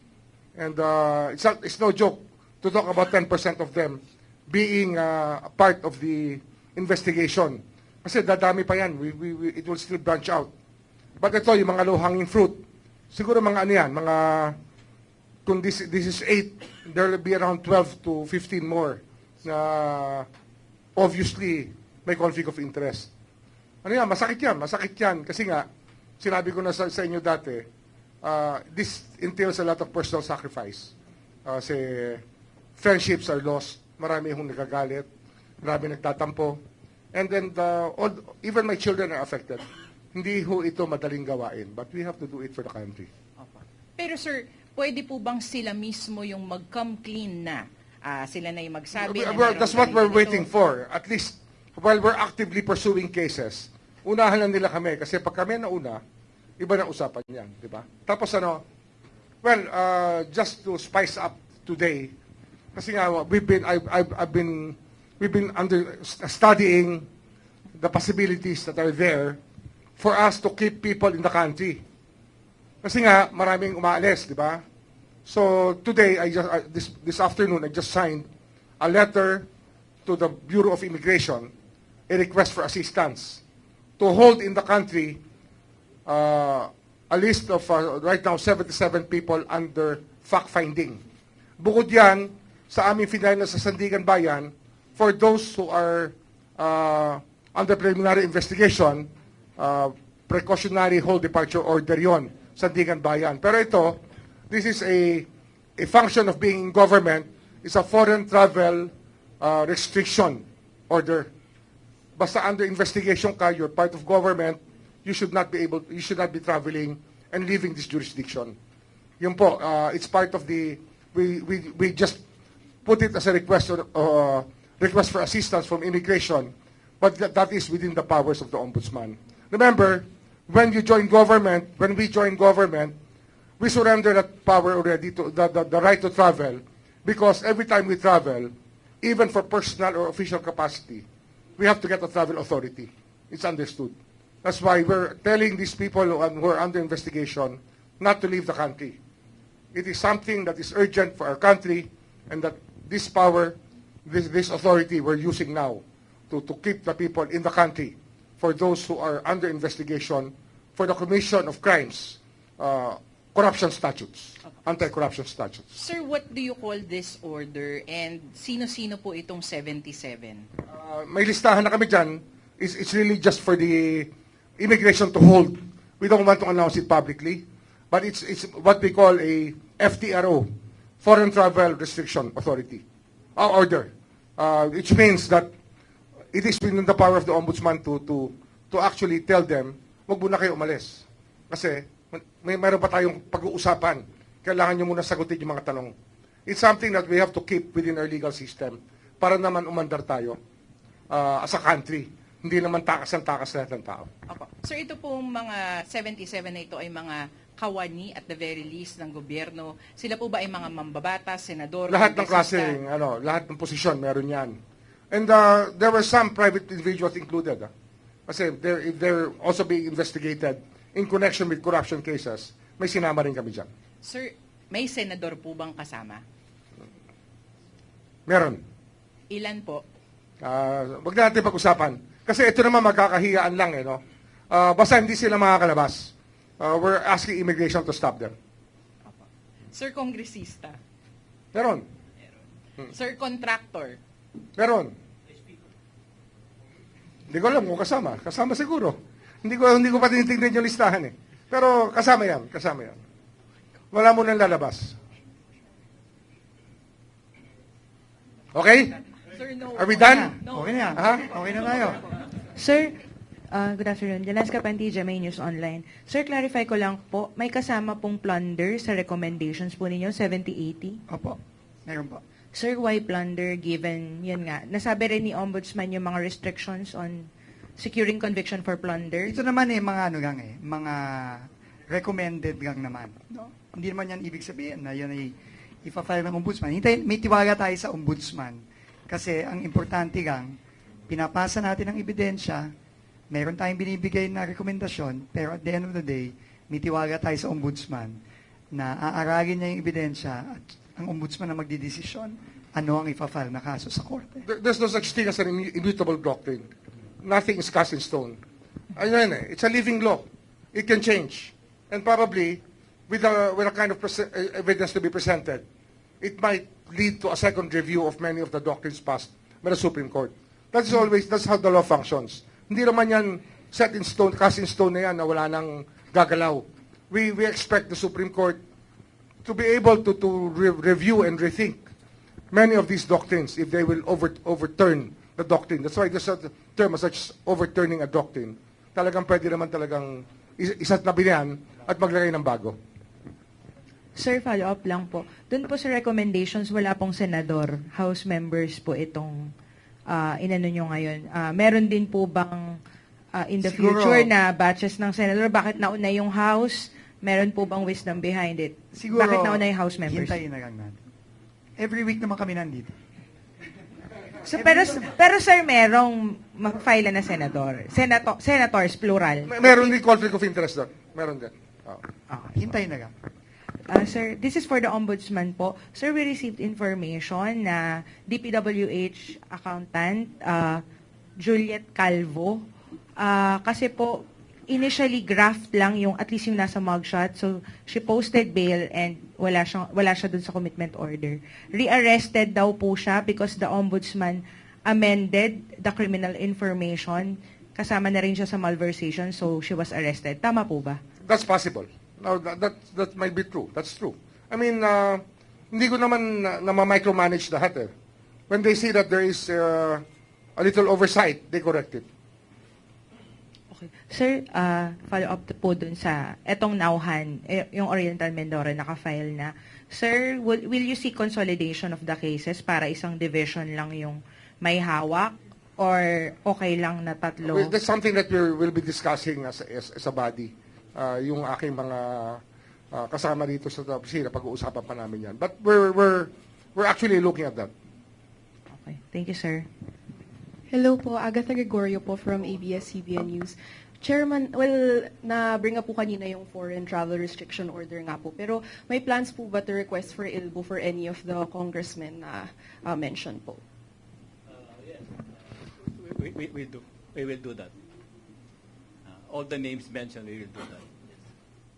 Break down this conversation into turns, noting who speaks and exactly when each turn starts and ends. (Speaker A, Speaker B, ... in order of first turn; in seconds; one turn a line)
Speaker A: 0.6-10.5
Speaker A: 11.2-14.6
Speaker A: 15.4-20.3
Speaker A: 20.9-23.1
Speaker A: 23.8-25.7
Speaker A: 26.2-27.6
Speaker A: 28.2-30.9
Speaker A: 31.4-32.2
Speaker A: 32.8-35.1
Speaker A: 35.6-36.6
Speaker A: 37.1-43.1
Speaker B: 43.4-50.5
Speaker A: 49.0-56.0
Speaker A: 56.6-58.6
Speaker A: 59.4-62.1
Speaker A: 62.7-67.1
Speaker A: 67.8-69.4
Speaker A: 70.0-71.8
Speaker A: 72.8-74.6
Speaker A: 75.2-78.3
Speaker A: 78.8-79.5
Speaker A: 80.0-81.5
Speaker A: 82.1-83.4
Speaker A: 84.0-85.2
Speaker A: 86.0-91.0
Speaker A: 91.6-111.3
Speaker A: 112.2-118.5
Speaker A: 119.2-122.2
Speaker A: 122.8-132.9
Speaker A: 133.6-141.1
Speaker A: 141.6-149.0
Speaker A: 149.7-165.8
Speaker B: 165.8-170.4
Speaker A: 170.7-180.5
Speaker A: 181.0-182.8
Speaker A: 183.3-185.5
Speaker A: 186.3-195.9
Speaker A: 196.5-200.4
Speaker A: 201.1-204.1
Speaker B: 204.3-212.8
Speaker A: 211.9-214.6
Speaker A: 215.1-217.7
Speaker A: 218.3-223.7
Speaker B: 224.0-226.2
Speaker A: 228.3-228.6
Speaker B: 229.3-229.8
Speaker A: 230.4-238.3
Speaker B: 239.1-240.8
Speaker A: 241.5-241.8
Speaker B: 242.9-244.0
Speaker A: 244.6-244.9
Speaker A: 247.3-253.0
Speaker A: 253.9-255.0
Speaker A: 258.5-258.9
Speaker B: 259.3-262.0
Speaker A: 259.7-260.4
Speaker C: 260.0-262.0
Speaker A: 260.9-261.3
Speaker D: 262.6-263.0
Speaker D: 263.5-271.0
Speaker C: 271.1-272.2
Speaker D: 272.5-279.3
Speaker C: 279.2-285.3
Speaker C: 285.8-290.6
Speaker C: 291.1-292.7
Speaker C: 293.3-298.2
Speaker C: 298.7-304.4
Speaker A: 304.4-306.7
Speaker A: 307.2-308.4
Speaker A: 308.9-315.6
Speaker A: 316.2-328.6
Speaker A: 329.4-331.8
Speaker A: 332.5-342.8
Speaker D: 344.1-349.5
Speaker D: 350.1-352.8
Speaker D: 353.3-360.4
Speaker C: 353.6-354.3
Speaker C: 358.9-361.0
Speaker C: 361.8-363.0
Speaker D: 364.4-369.9
Speaker C: 364.5-365.1
Speaker A: 369.4-372.1
Speaker D: 372.3-372.5
Speaker C: 372.5-373.1
Speaker D: 373.9-380.8
Speaker D: 381.4-382.6
Speaker D: 383.2-401.0
Speaker A: 401.2-407.9
Speaker A: 408.5-410.0
Speaker A: 410.6-412.1
Speaker D: 413.7-427.7
Speaker A: 427.4-432.4
Speaker A: 432.9-437.7
Speaker D: 438.7-439.7
Speaker E: 440.7-453.6
Speaker F: 454.5-457.7
Speaker F: 459.1-461.0